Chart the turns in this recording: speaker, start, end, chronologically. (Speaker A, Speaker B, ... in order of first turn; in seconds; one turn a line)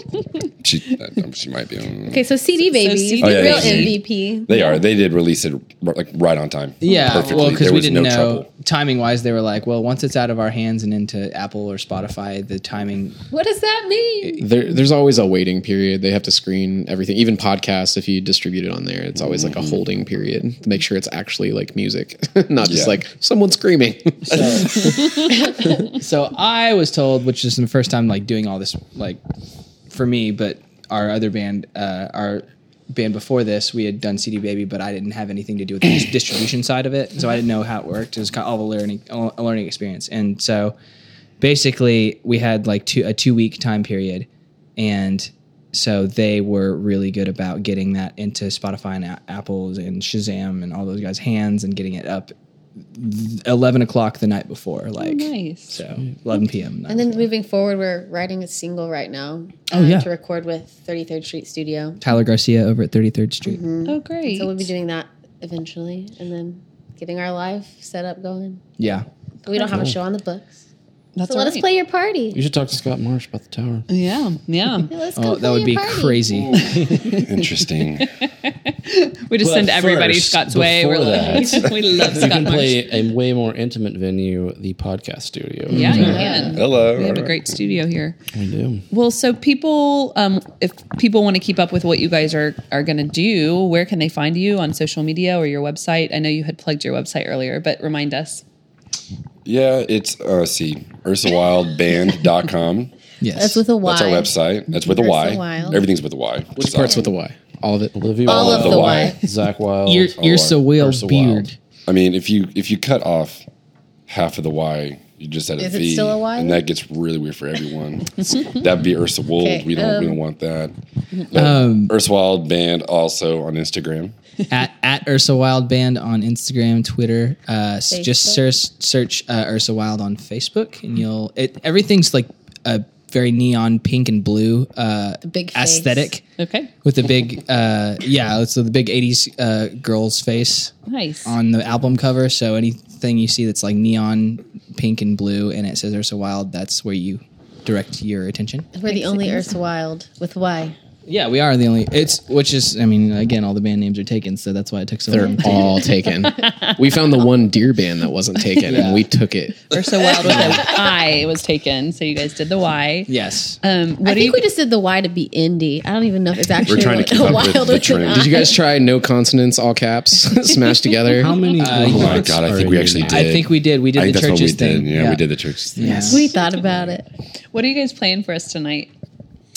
Speaker A: 0.6-2.2
Speaker B: 2.1-4.7
Speaker C: 2.6-4.0
Speaker A: 3.2-8.5
Speaker D: 6.8-13.2
Speaker B: 6.9-7.5
Speaker B: 13.3-14.4
Speaker E: 14.4-24.9
Speaker A: 19.4-19.8
Speaker A: 22.6-23.0
Speaker F: 24.3-24.9
Speaker D: 25.9-29.2
Speaker D: 29.9-40.8
Speaker D: 41.4-52.3
Speaker D: 52.9-57.2
Speaker C: 55.0-55.8
Speaker B: 56.9-62.0
Speaker D: 59.7-60.1
Speaker D: 62.0-63.6
Speaker B: 63.5-68.6
Speaker C: 63.9-64.7
Speaker D: 68.8-69.1
Speaker B: 69.5-70.6
Speaker C: 71.2-71.7
Speaker B: 71.3-72.4
Speaker F: 72.3-73.9
Speaker C: 73.9-74.9
Speaker B: 74.9-76.4
Speaker D: 75.2-76.7
Speaker A: 76.4-78.1
Speaker C: 76.6-77.5
Speaker C: 78.0-82.9
Speaker F: 79.4-86.2
Speaker C: 85.7-88.2
Speaker D: 85.7-86.3
Speaker B: 85.9-86.7
Speaker A: 86.5-87.6
Speaker F: 88.3-88.9
Speaker C: 88.9-98.4
Speaker A: 99.5-102.9
Speaker D: 103.2-103.7
Speaker B: 103.3-105.9
Speaker A: 103.8-107.0
Speaker E: 106.6-108.0
Speaker B: 106.8-107.0
Speaker F: 108.0-111.5
Speaker B: 108.2-109.2
Speaker A: 108.3-109.1
Speaker D: 109.9-111.6
Speaker A: 111.9-113.5
Speaker A: 114.1-120.8
Speaker B: 115.6-116.6
Speaker B: 119.4-120.2
Speaker A: 121.3-124.1
Speaker D: 121.3-122.0
Speaker D: 124.5-136.2
Speaker B: 127.9-128.4
Speaker B: 135.2-136.1
Speaker C: 136.4-136.7
Speaker D: 136.8-140.7
Speaker C: 140.9-141.4
Speaker D: 141.2-148.7
Speaker B: 148.7-150.8
Speaker C: 148.9-149.5
Speaker D: 151.1-155.8
Speaker E: 155.1-160.7
Speaker C: 156.3-156.7
Speaker D: 158.7-159.1
Speaker C: 159.7-164.4
Speaker B: 160.3-160.8
Speaker D: 163.1-163.6
Speaker B: 164.0-168.6
Speaker A: 166.7-168.3
Speaker E: 168.1-171.4
Speaker F: 171.1-173.3
Speaker D: 171.6-172.4
Speaker A: 171.8-176.1
Speaker D: 173.1-175.2
Speaker D: 175.8-176.3
Speaker B: 175.9-177.1
Speaker C: 177.5-178.9